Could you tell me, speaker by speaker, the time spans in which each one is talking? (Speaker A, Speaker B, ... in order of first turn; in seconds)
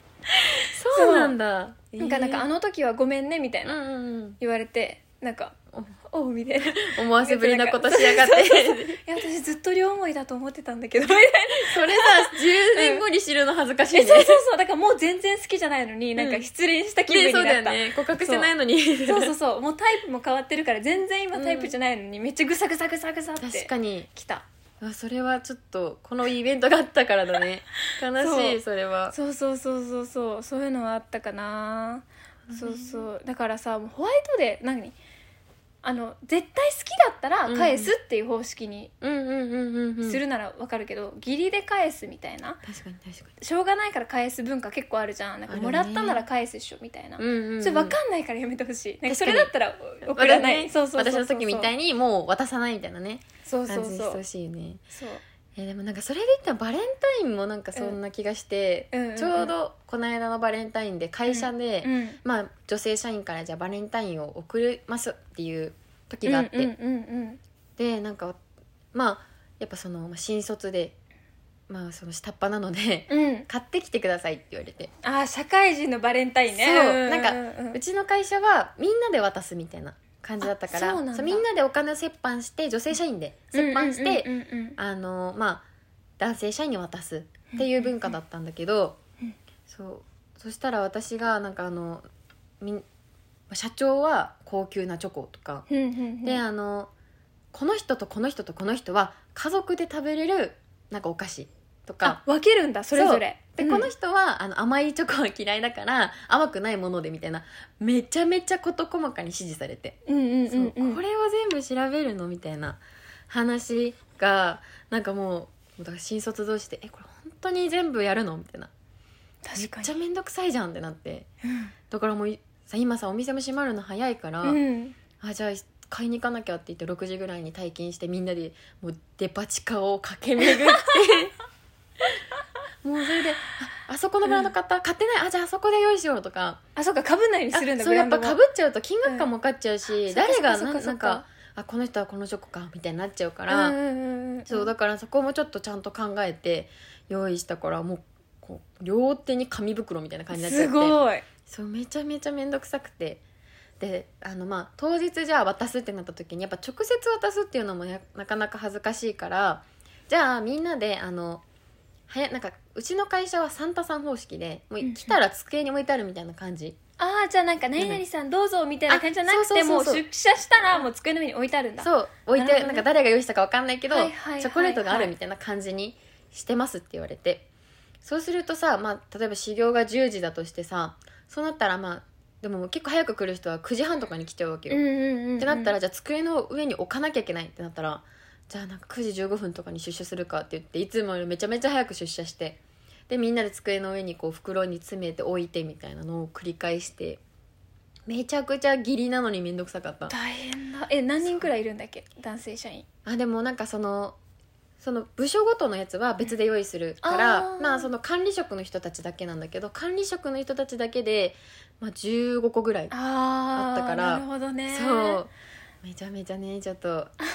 Speaker A: 0.4-1.4, 2.0-3.8, 4.4-5.5, 6.1-13.0, 13.9-18.5, 19.1-24.4, 28.2-35.0, 35.8-38.9, 40.0-42.6, 43.4-51.7, 53.5-54.2, 54.9-55.2, 58.9-59.5, 61.3-62.2, 66.2-67.4, 73.1-73.5, 75.0-77.8, 80.4-81.5, 83.5-84.8, 87.5-88.2, 95.7-96.4, 102.0-103.9, 110.0-111.0, 119.4-119.9, 121.4-121.7, 124.4-125.0, 130.4-130.8, 136.8-138.4, 139.0-139.3, 139.9-141.3, 143.5-144.7, 150.3-151.2, 164.8-165.2, 167.0-172.8, 173.9-175.1, 184.7-185.7, 200.1-202.8, 207.0-207.9, 212.9-215.2
Speaker B: 0.6-2.5, 3.6-4.4, 6.6-9.0, 11.5-14.4, 16.2-16.4, 17.1-19.4, 21.3-21.7, 23.4-24.1, 24.8-29.1, 32.5-33.1, 37.5-37.9, 39.0-40.2, 42.6-43.3, 45.5-46.2, 47.2-48.0, 49.0-49.5, 50.0-54.8, 55.6-66.7, 67.8-68.4, 68.9-71.0, 71.7-74.9, 76.5-85.7, 86.2-89.0, 89.7-92.1, 93.5-95.7, 96.2-96.9, 97.5-102.2, 102.9-110.0, 110.5-118.7, 119.6-121.3, 121.9-124.6, 125.2-131.3, 132.8-136.6, 137.5-143.8, 144.5-153.2, 153.8-161.4, 162.1-166.8, 168.9-170.0, 171.8-177.4, 178.0-184.8, 185.4-197.2, 198.1-200.1, 203.1-204.2, 204.8-212.9, 213.5-215.3, 215.8-217.2